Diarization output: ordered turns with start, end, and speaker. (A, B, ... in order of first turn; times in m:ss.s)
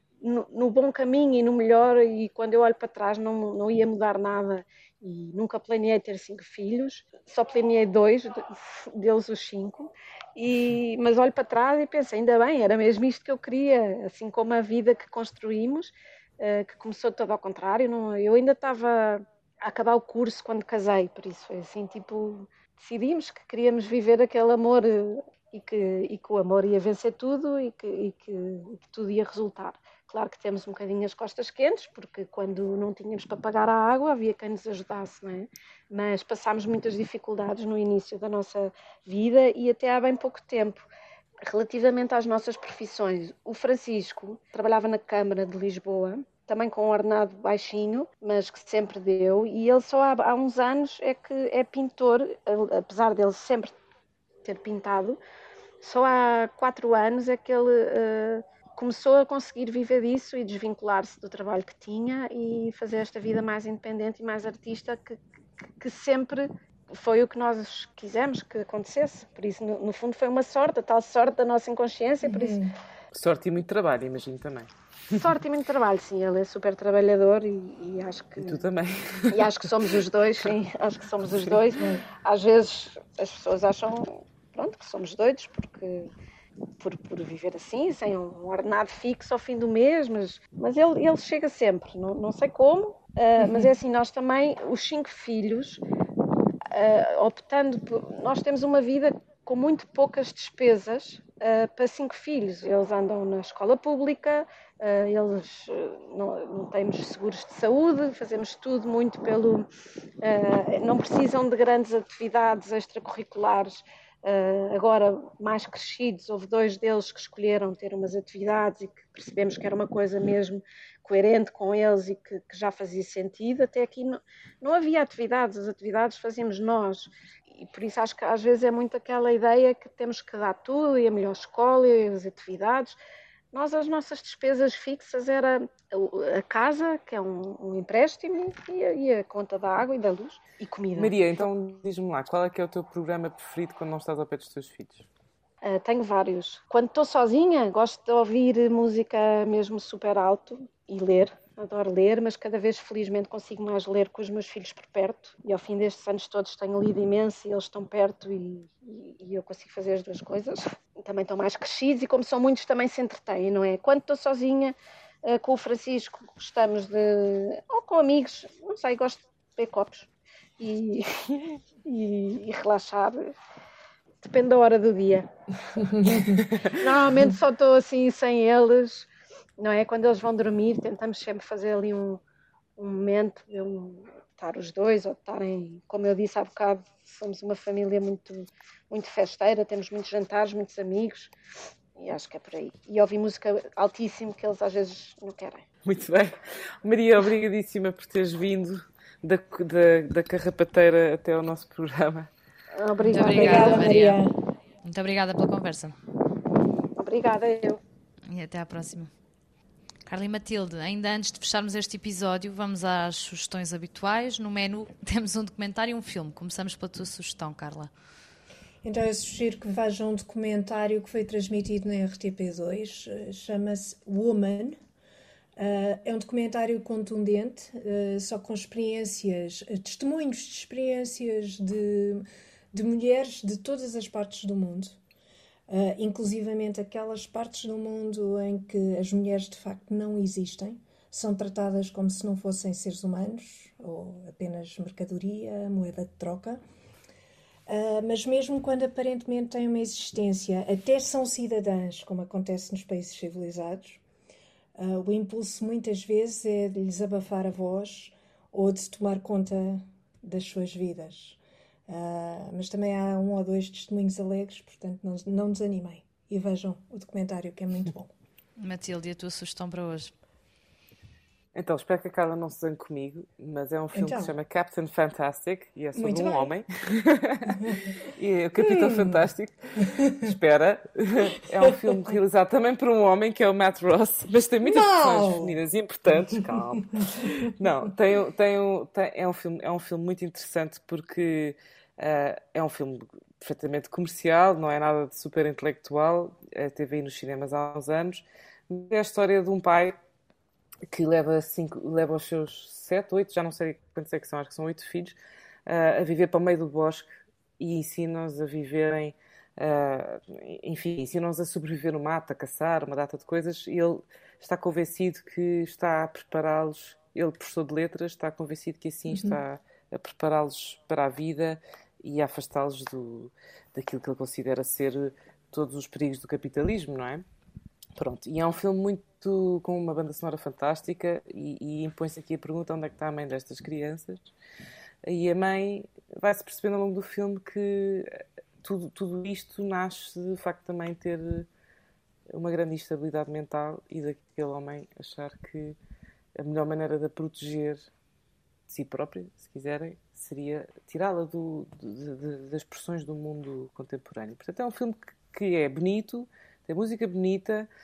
0:00.2-0:40.8 A
0:41.4-0:53.7 A
0:54.4-0:55.2 A
0:55.8-1:05.2 A
1:05.8-1:12.6 A
1:12.2-1:12.8 B
1:13.1-1:15.2 C
1:15.1-1:18.6 A
1:18.4-1:19.7 C
1:19.3-1:26.1 A
1:21.3-1:21.6 C
1:21.8-1:22.0 B
1:26.8-1:35.8 A
1:36.7-1:49.7 A
1:50.2-2:13.0 A
2:13.5-2:21.1 A
2:21.0-2:25.1 C
2:25.6-2:53.3 A
2:54.2-2:55.3 A
2:55.8-3:02.2 A
2:55.8-2:56.3 B
3:02.8-3:11.3 A
3:12.0-3:15.6 A
3:15.8-3:22.3 C
3:22.7-3:24.0 A
3:23.0-3:24.4 B
3:23.1-3:24.2 D
3:24.8-3:26.0 D
3:27.0-3:27.8 A
3:28.3-3:29.1 D
3:30.1-3:37.9 D
3:38.8-3:44.8 B
3:45.6-3:55.0 B
3:55.7-4:06.6 B
4:07.7-4:14.0 B
4:14.8-4:28.1 B
4:28.6-4:30.1 D
4:31.5-4:37.6 C
4:33.9-4:34.3 B
4:36.0-4:36.5 B
4:37.5-4:38.0 B
4:38.1-5:00.0 C
4:38.6-4:39.2 B
4:39.8-4:40.3 B
4:41.6-4:42.1 B
4:44.6-4:45.6 B
5:00.9-5:27.2 C
5:19.1-5:19.4 B
5:28.0-5:34.2 C
5:35.0-5:41.5 C
5:42.3-5:45.8 C
5:46.4-5:47.9 C
5:48.7-5:57.7 C